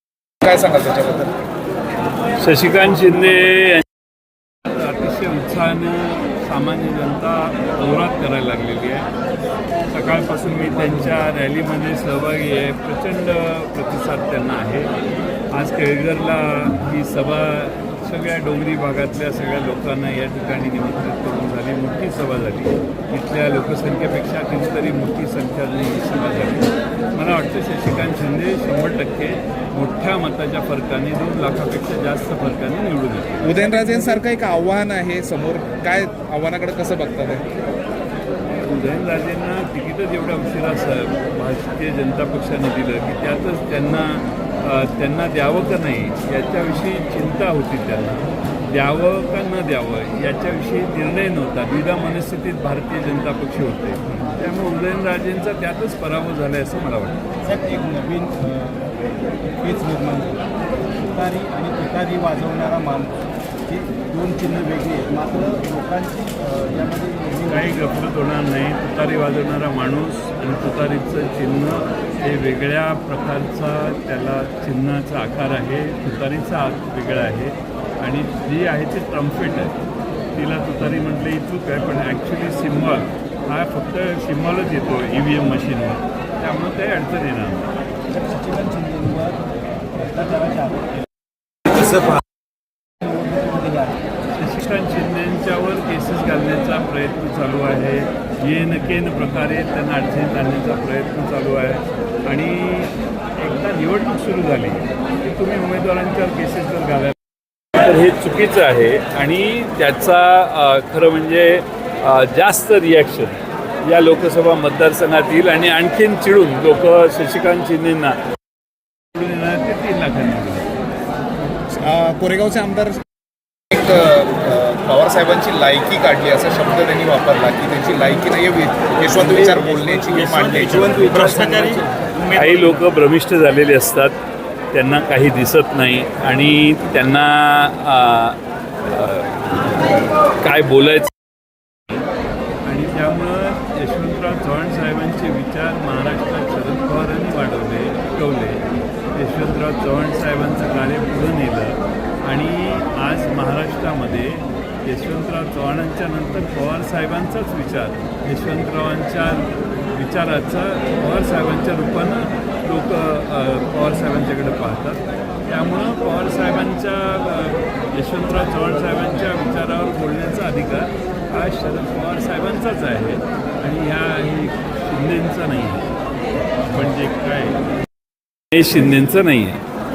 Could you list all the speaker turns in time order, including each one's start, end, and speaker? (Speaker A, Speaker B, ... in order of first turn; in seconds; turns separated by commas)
Speaker A: 0.4-1.4, Speaker B: 2.4-3.9, Speaker B: 4.7-9.1, Speaker B: 9.9-14.9, Speaker B: 15.5-33.6, Speaker A: 33.4-37.5, Speaker B: 38.6-57.2, Speaker C: 57.4-58.9, Speaker C: 59.6-60.5, Speaker C: 61.0-67.6, Speaker B: 67.5-79.8, Speaker B: 80.3-87.7, Speaker C: 88.1-89.4, Speaker C: 90.0-90.9, Speaker C: 93.0-94.0, Speaker B: 94.4-107.2, Speaker B: 107.8-118.2, Speaker B: 119.1-120.7, Speaker A: 121.7-123.0, Speaker A: 123.7-131.2, Speaker C: 129.5-132.3, Speaker B: 132.3-134.2, Speaker B: 134.7-139.8, Speaker B: 140.4-141.1, Speaker B: 142.7-148.6, Speaker B: 149.1-175.8, Speaker B: 176.7-177.6, Speaker B: 178.5-179.6